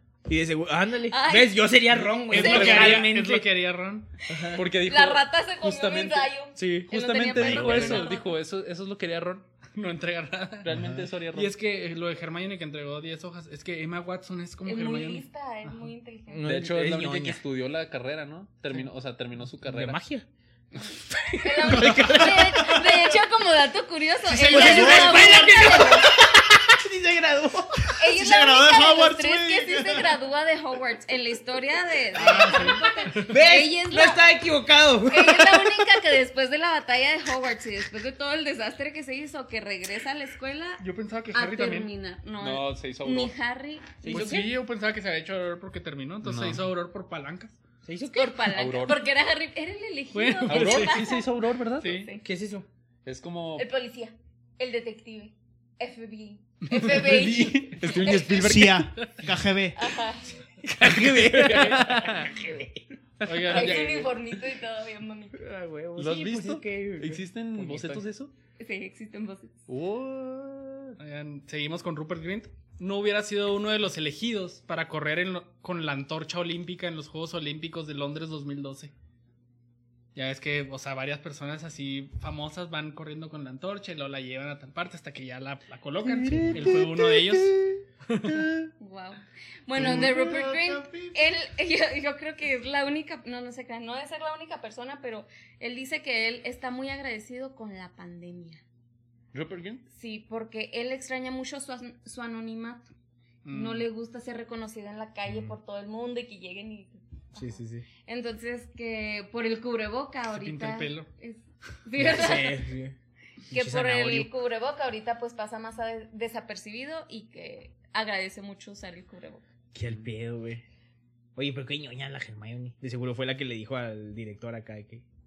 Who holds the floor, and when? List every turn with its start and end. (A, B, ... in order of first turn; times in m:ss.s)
0:00.3-0:03.5 A
0:01.1-0:01.7 B
0:02.1-0:03.1 C
0:02.3-0:02.9 B
0:02.3-0:04.1 D
0:04.3-0:04.6 A
0:04.5-0:09.5 C
0:04.8-0:08.4 B
0:06.6-0:08.0 A
0:09.7-0:10.7 D
0:10.6-0:11.6 C
0:11.3-0:15.9 D
0:14.6-0:16.4 B
0:16.3-0:17.4 A
0:16.4-0:20.0 C
0:19.6-0:20.2 A
0:21.1-0:23.0 A
0:21.4-0:26.2 B
0:21.8-0:22.1 D
0:24.3-0:25.8 E
0:24.4-0:27.9 A
0:28.0-0:34.3 B
0:28.0-0:30.1 E
0:32.2-0:33.4 D
0:33.2-0:35.9 A
0:35.1-0:44.0 B
0:40.8-0:41.9 D
0:42.4-0:43.3 C
0:44.0-0:44.5 A
0:44.1-0:47.6 D
0:46.2-0:46.6 C
0:47.8-0:48.4 A
0:48.1-0:51.3 B
0:48.5-0:49.0 C
0:50.1-0:51.1 D
0:50.4-0:52.0 C
0:51.8-0:52.1 D
0:51.8-0:52.2 B
0:52.2-0:52.6 A
0:53.0-0:53.7 C
0:53.6-0:58.7 B
0:56.8-0:58.9 C
0:58.4-0:59.8 E
0:59.8-1:00.3 B
1:00.6-1:02.9 A
1:00.8-1:02.1 C
1:01.0-1:01.9 D
1:03.2-1:04.1 D
1:03.3-1:04.1 C
1:03.5-1:05.4 B
1:05.3-1:08.0 A
1:06.0-1:08.3 C
1:08.6-1:09.6 B
1:09.7-1:10.9 C
1:11.0-1:18.9 D
1:20.1-1:28.4 D
1:26.0-1:26.9 C
1:28.2-1:28.7 C
1:28.8-1:38.6 B
1:29.8-1:31.2 E
1:39.3-1:39.8 C
1:39.9-1:42.9 B
1:43.4-1:43.9 D
1:43.5-1:52.6 B
1:45.3-1:45.6 A
1:47.3-1:47.8 A
1:50.3-1:51.1 D
1:52.0-1:53.0 A
1:53.5-1:54.3 A
1:53.5-1:59.4 B
1:59.7-2:00.6 A
2:01.4-2:05.0 A